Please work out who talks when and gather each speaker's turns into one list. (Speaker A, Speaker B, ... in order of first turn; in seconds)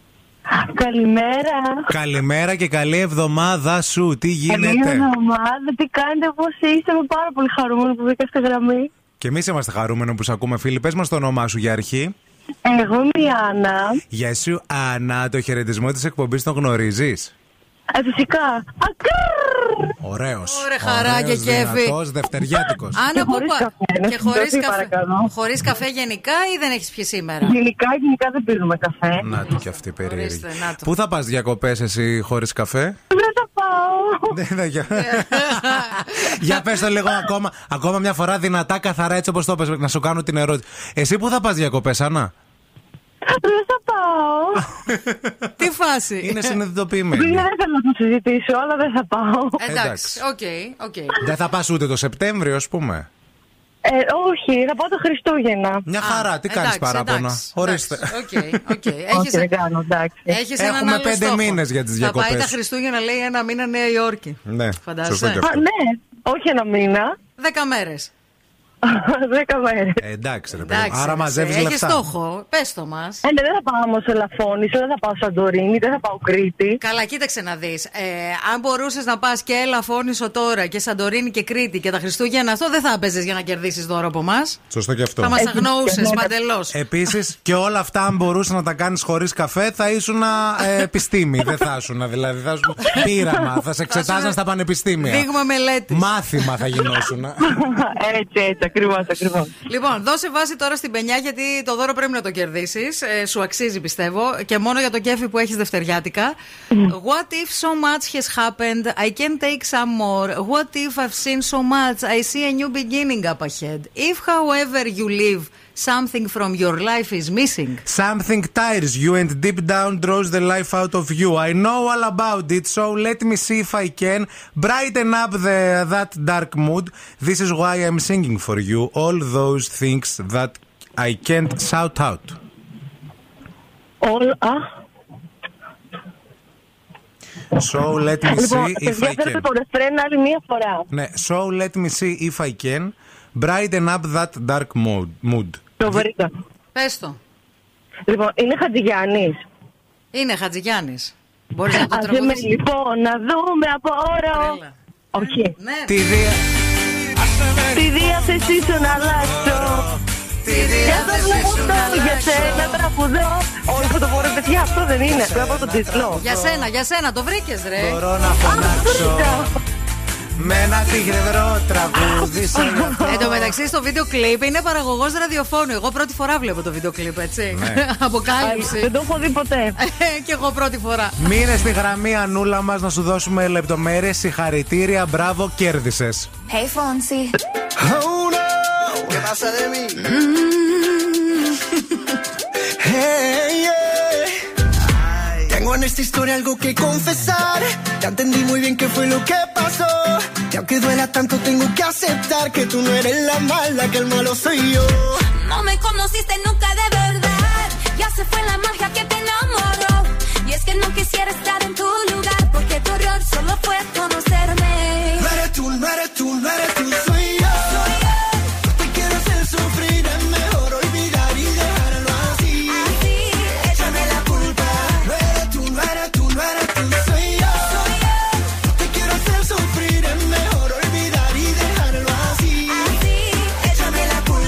Speaker A: 0.5-1.8, 4.5-8.9, 12.7-14.0, 17.9-19.9, 23.1-25.3, 27.4-29.2, 33.1-34.3, 43.3-44.6, 47.1-49.6, 53.8-55.8, 59.1-60.3, 65.4-67.1, 68.8-70.0, 73.2-76.8, 85.4-86.3, 97.4-99.5, 134.0-134.6, 138.3-140.8, 145.8-146.3, 148.1-149.4, 151.7-154.6, 155.1-155.5, 157.7-159.8, 160.8-166.2, 168.4-169.5, 172.1-173.1, 178.4-179.8
Speaker B: 1.9-5.1, 9.2-12.1, 14.1-17.3, 20.0-23.0, 29.2-33.0, 34.3-42.3, 44.9-45.2, 46.2-47.5, 49.7-50.2, 51.2-53.1, 55.9-58.5, 60.6-62.5, 64.5-65.5, 70.0-72.0, 84.7-85.4, 86.7-95.3, 95.9-97.4, 117.8-132.4, 137.6-139.5, 140.9-146.1, 155.9-156.4, 159.2-162.6, 165.1-166.5, 167.8-169.5, 170.4-173.4, 177.5-177.8, 181.2-186.3
Speaker C: 20.5-21.9, 22.9-27.6, 30.0-30.9, 35.0-36.0, 45.6-46.5, 49.6-51.1, 56.0-59.5, 60.3-65.4, 67.4-68.1, 70.6-73.2, 76.8-84.6, 85.2-86.7, 93.9-94.3, 95.0-96.1, 99.7-106.3, 106.9-117.8, 146.7-147.2, 150.1-152.5, 154.3-156.0, 160.4-162.7, 166.2-168.0, 173.1-178.9, 179.8-181.2
Speaker D: 186.5-187.3, 205.2-215.3, 222.6-224.6, 227.7-228.1, 232.6-234.1
Speaker E: 189.1-190.0, 195.5-196.3, 198.2-198.8, 200.5-201.1, 215.6-217.1, 218.8-222.1, 225.6-227.4, 229.0-232.0